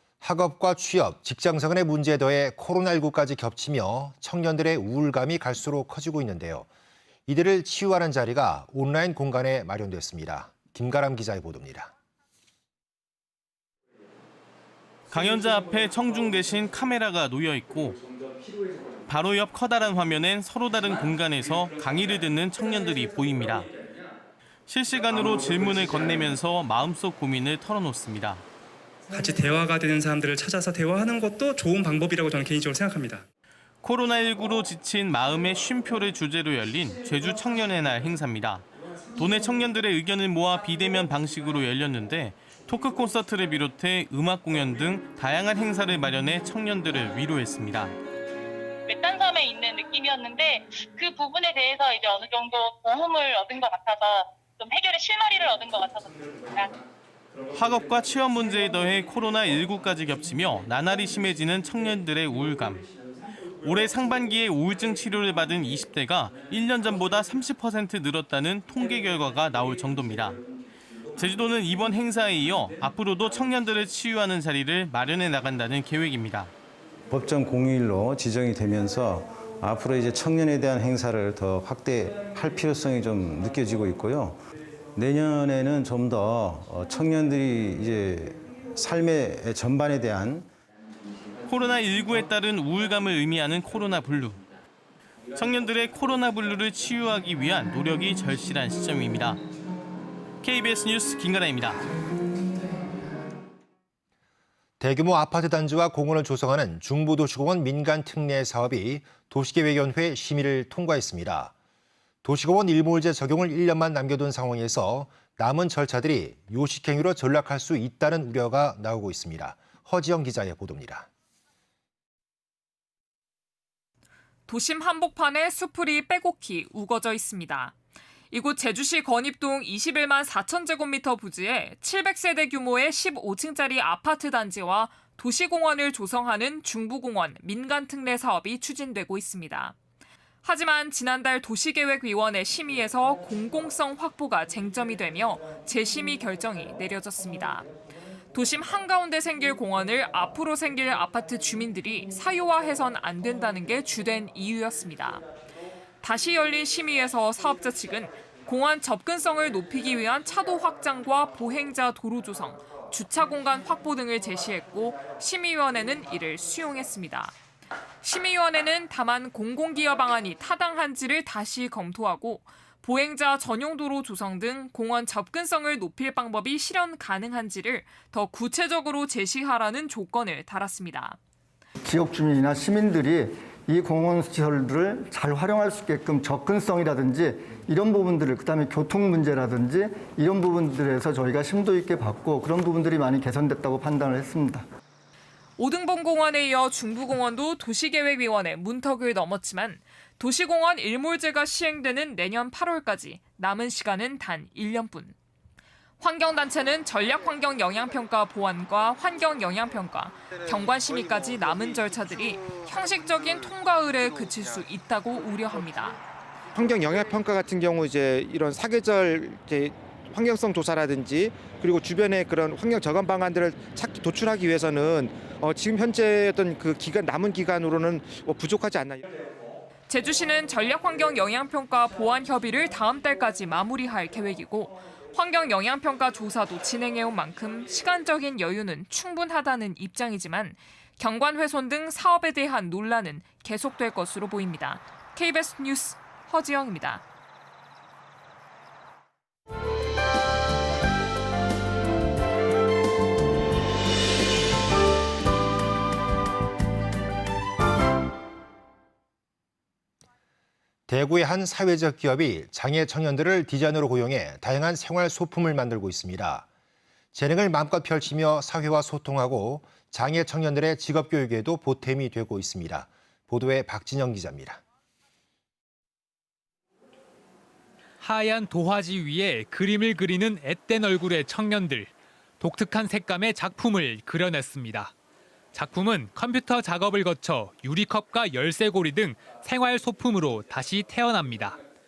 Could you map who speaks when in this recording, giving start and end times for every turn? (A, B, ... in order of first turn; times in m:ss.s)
0:00.2-0:06.7 A
0:07.3-0:11.9 A
0:15.1-0:18.0 B
0:19.1-0:23.7 B
0:24.7-0:28.4 B
0:29.1-0:33.2 C
0:33.8-0:48.0 B
0:48.9-0:56.7 D
0:57.5-1:02.8 B
1:03.6-1:10.4 B
1:11.2-1:16.5 B
1:17.1-1:24.4 E
1:25.0-1:30.5 E
1:31.5-1:34.4 B
1:35.4-1:39.4 B
1:40.4-1:41.8 B
1:44.8-1:51.5 A
1:52.2-2:01.1 A
2:04.5-2:07.7 F
2:08.3-2:19.8 F
2:20.4-2:27.7 F
2:28.3-2:35.3 F
2:36.0-2:47.4 F
2:48.0-3:01.2 F
3:01.8-3:14.7 G
3:15.6-3:25.2 F
3:26.0-3:36.0 F
3:36.5-3:49.0 H
3:49.9-4:07.0 F
4:20.9-4:26.5 A
4:27.1-4:34.6 A
4:38.0-4:41.9 I
4:42.4-4:44.9 I
4:45.5-4:51.6 I